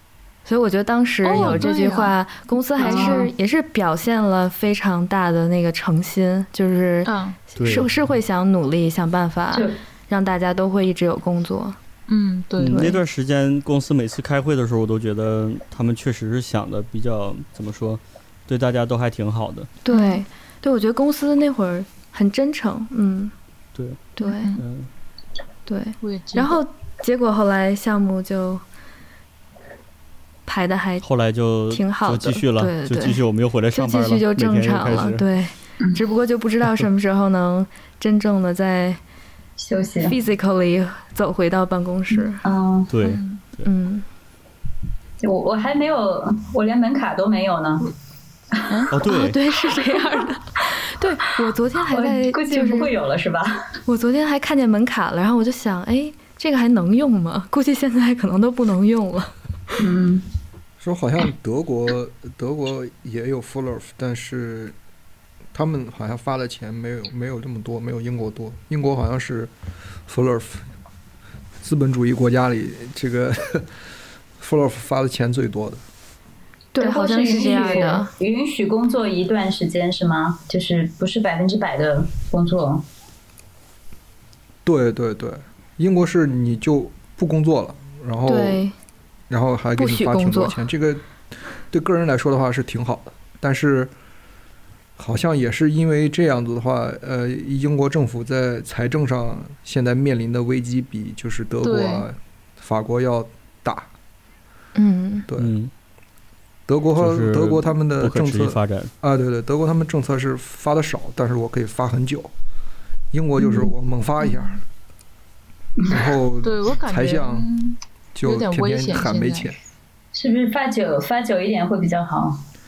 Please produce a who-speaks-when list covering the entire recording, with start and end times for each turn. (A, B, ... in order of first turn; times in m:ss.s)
0:00.4-0:11.8 A
0:01.2-0:02.1 B
0:02.8-0:03.3 C
0:02.8-0:03.2 B
0:07.0-0:07.4 B
0:07.6-0:07.9 D
0:12.1-0:12.9 B
0:12.6-0:19.7 D
0:12.7-0:13.0 A
0:19.8-0:23.3 A
0:19.9-0:20.2 B
0:23.8-0:24.9 D
0:24.2-0:24.6 A
0:24.2-0:24.6 B
0:25.7-0:28.6 A
0:26.0-0:26.6 B
0:30.5-0:31.0 A
0:31.0-0:35.2 D
0:31.7-0:39.0 A
0:39.6-0:40.1 C
0:40.0-0:42.4 A
0:42.4-0:42.9 C
0:42.9-0:43.7 D
0:43.0-0:43.4 B
0:43.0-0:44.0 A
0:45.2-0:47.9 C
0:48.5-0:48.8 C
0:48.9-0:49.4 D
0:48.9-0:52.9 A
0:51.9-0:53.7 C
0:53.9-0:59.3 A
0:59.8-1:00.3 C
1:00.8-1:04.7 E
1:05.5-1:09.5 E
1:10.1-1:10.6 E
1:11.6-1:13.7 E
1:14.4-1:15.8 E
1:16.7-1:18.1 A
1:16.8-1:22.8 C
1:24.6-1:28.6 E
1:28.2-1:28.7 A
1:29.3-1:31.0 E
1:29.8-1:30.6 A
1:31.7-1:33.9 E
1:35.0-1:43.9 E
1:41.6-1:42.0 B
1:44.8-1:45.3 A
1:45.3-1:45.5 E
1:45.4-1:45.7 D
1:46.7-1:52.3 E
1:47.0-1:48.9 D
1:53.1-1:54.6 E
1:55.9-1:57.5 E
1:56.4-1:59.5 B
1:58.1-1:59.6 E
2:00.1-2:02.4 C